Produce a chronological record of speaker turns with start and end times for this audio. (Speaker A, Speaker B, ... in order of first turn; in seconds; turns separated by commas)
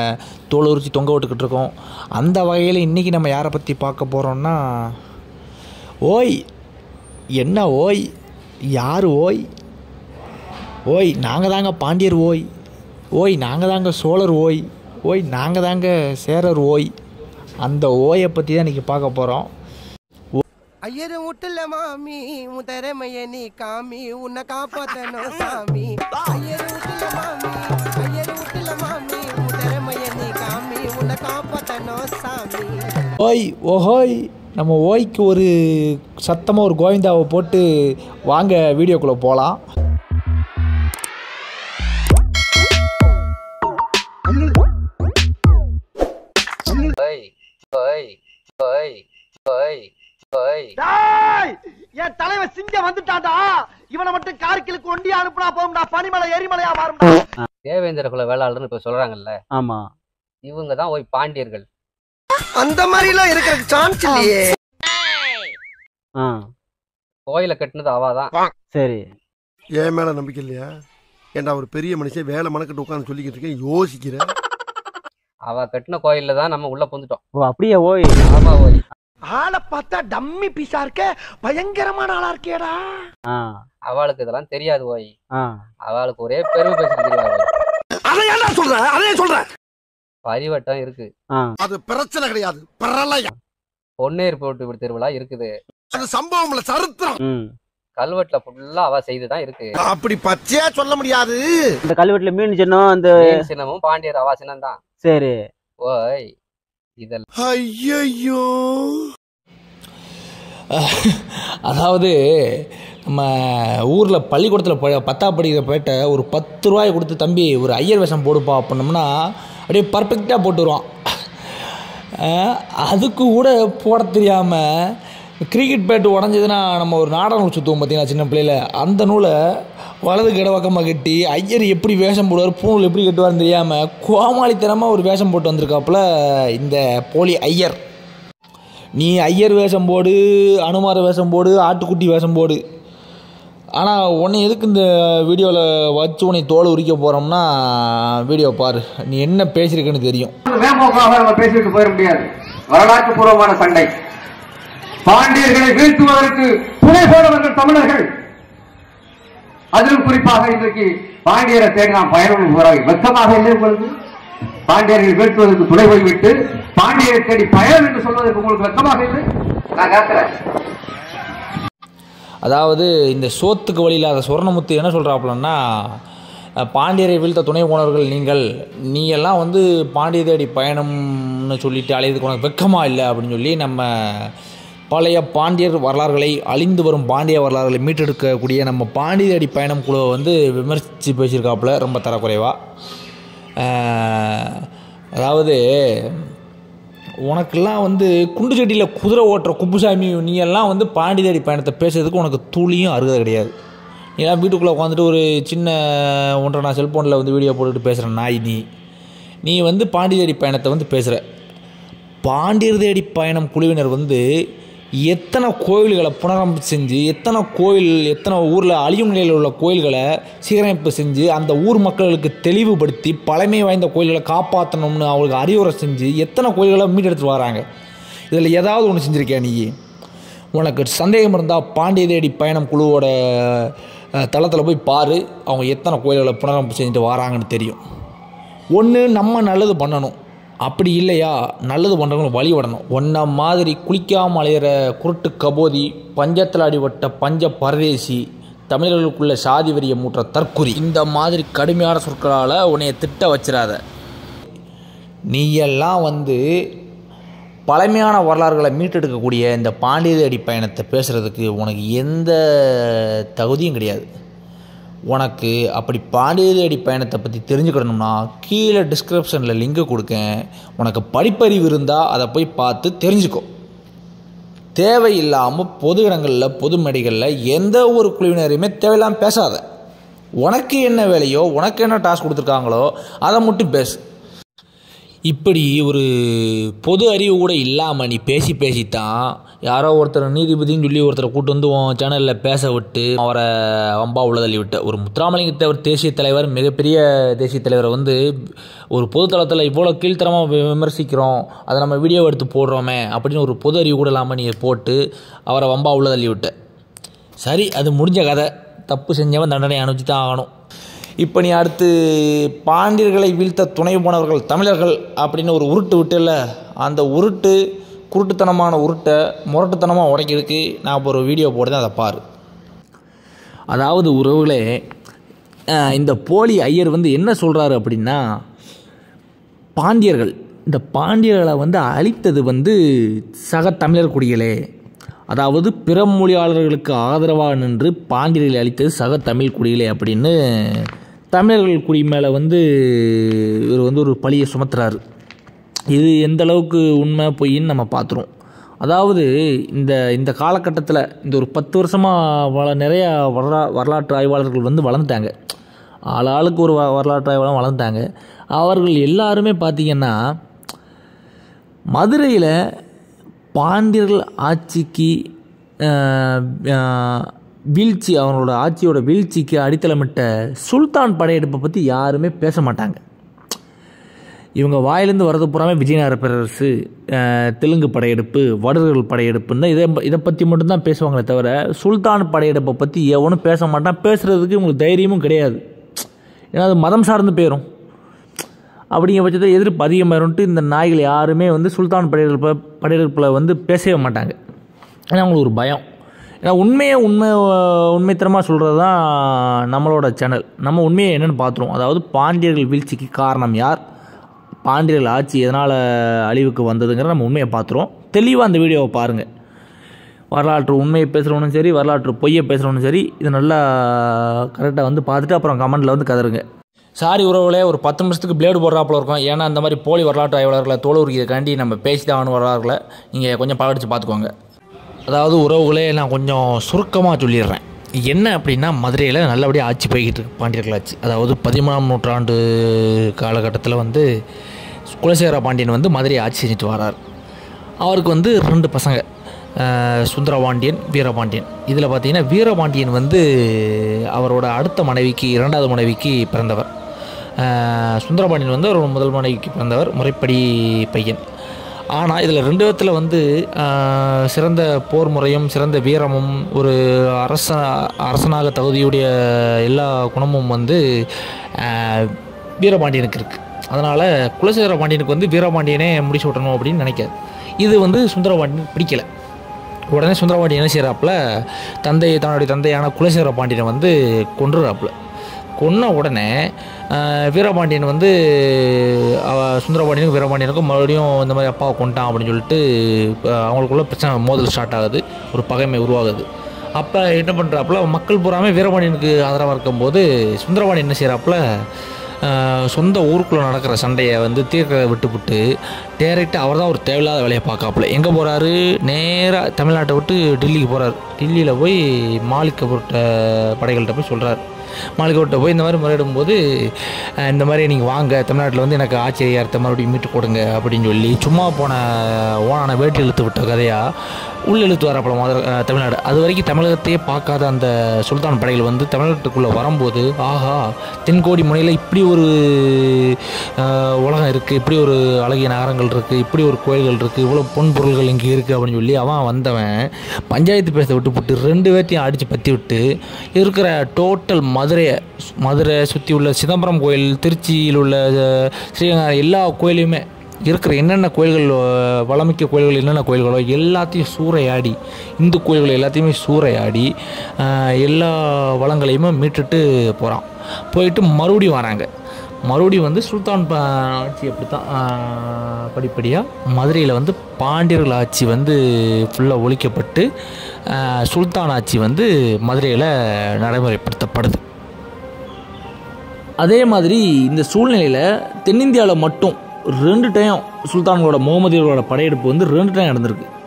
Speaker A: 0.5-4.6, Speaker A: 6.1-6.3, Speaker A: 7.4-8.0, Speaker A: 8.8-9.4, Speaker A: 10.9-12.4, Speaker A: 13.2-16.9, Speaker A: 17.6-19.5, Speaker B: 20.8-33.1, Speaker A: 33.2-37.6, Speaker A: 38.3-39.6, Speaker C: 47.0-50.7, Speaker D: 50.8-57.2, Speaker C: 57.6-59.3, Speaker E: 59.5-59.8, Speaker C: 60.5-61.6, Speaker B: 62.6-64.4, Speaker E: 66.2-66.4, Speaker C: 67.3-68.3, Speaker E: 68.7-69.1, Speaker F: 69.7-70.7, Speaker F: 71.3-74.3, Speaker C: 75.5-77.2, Speaker E: 77.3-78.2, Speaker C: 78.2-78.8, Speaker D: 79.3-82.8, Speaker E: 83.3-83.6, Speaker C: 83.9-85.1, Speaker C: 85.9-87.5, Speaker F: 88.1-89.4, Speaker C: 90.2-91.1, Speaker F: 91.6-93.3, Speaker C: 94.0-95.5, Speaker F: 96.0-97.2, Speaker E: 97.2-97.5, Speaker C: 98.0-99.7, Speaker F: 99.8-101.7, Speaker E: 101.8-103.5, Speaker C: 103.2-104.8, Speaker E: 105.0-105.3, Speaker C: 105.8-106.2, Speaker C: 107.0-107.2, Speaker F: 107.4-109.0, Speaker A: 110.7-119.1, Speaker A: 119.7-120.8, Speaker A: 122.2-124.6, Speaker A: 125.5-129.3, Speaker A: 130.0-136.0, Speaker A: 136.5-137.8, Speaker A: 139.0-142.6, Speaker A: 143.8-150.3, Speaker G: 150.5-153.9, Speaker G: 155.1-158.1, Speaker G: 159.7-163.9, Speaker G: 164.7-169.2, Speaker C: 169.8-170.2, Speaker A: 172.4-175.6, Speaker A: 176.7-184.3, Speaker A: 184.9-192.5, Speaker A: 193.6-194.6, Speaker A: 195.2-196.2, Speaker A: 197.2-203.5, Speaker A: 204.2-208.6, Speaker A: 209.4-211.2, Speaker A: 212.2-214.2, Speaker A: 215.1-227.6, Speaker A: 228.3-229.7, Speaker A: 230.5-233.7, Speaker A: 234.2-237.8, Speaker A: 238.8-253.8, Speaker A: 255.3-256.4, Speaker A: 257.7-264.1, Speaker A: 265.1-273.4, Speaker A: 274.8-279.6, Speaker A: 280.4-284.0, Speaker A: 285.3-289.1, Speaker A: 289.6-298.2, Speaker A: 298.9-306.5, Speaker A: 307.4-310.5, Speaker A: 311.2-317.6, Speaker A: 318.1-322.2, Speaker A: 323.7-324.6, Speaker A: 325.8-328.2, Speaker A: 329.8-332.7, Speaker A: 333.5-334.5, Speaker A: 335.3-345.0, Speaker A: 345.9-348.3, Speaker A: 348.8-355.3, Speaker A: 356.1-358.0, Speaker A: 358.6-360.1, Speaker A: 362.0-362.5, Speaker A: 363.6-365.1, Speaker A: 365.9-373.0, Speaker A: 374.6-385.6, Speaker A: 386.5-387.6, Speaker A: 388.9-394.4, Speaker A: 395.1-395.8, Speaker A: 396.4-403.8, Speaker A: 404.7-409.2, Speaker A: 410.3-416.4, Speaker A: 417.0-424.3, Speaker A: 425.1-434.1, Speaker A: 434.9-437.0, Speaker A: 437.8-439.0, Speaker A: 439.6-446.7, Speaker A: 447.4-451.2, Speaker A: 451.9-460.8, Speaker A: 461.6-469.1, Speaker A: 469.9-471.2, Speaker A: 471.8-474.9, Speaker A: 475.6-476.3, Speaker A: 476.9-486.2, Speaker A: 486.8-491.4, Speaker A: 492.2-495.4, Speaker A: 496.0-504.4, Speaker A: 505.0-513.8, Speaker A: 514.5-529.7, Speaker A: 530.3-532.8, Speaker A: 533.4-551.9, Speaker A: 552.5-560.0, Speaker A: 560.7-564.4, Speaker A: 566.4-573.3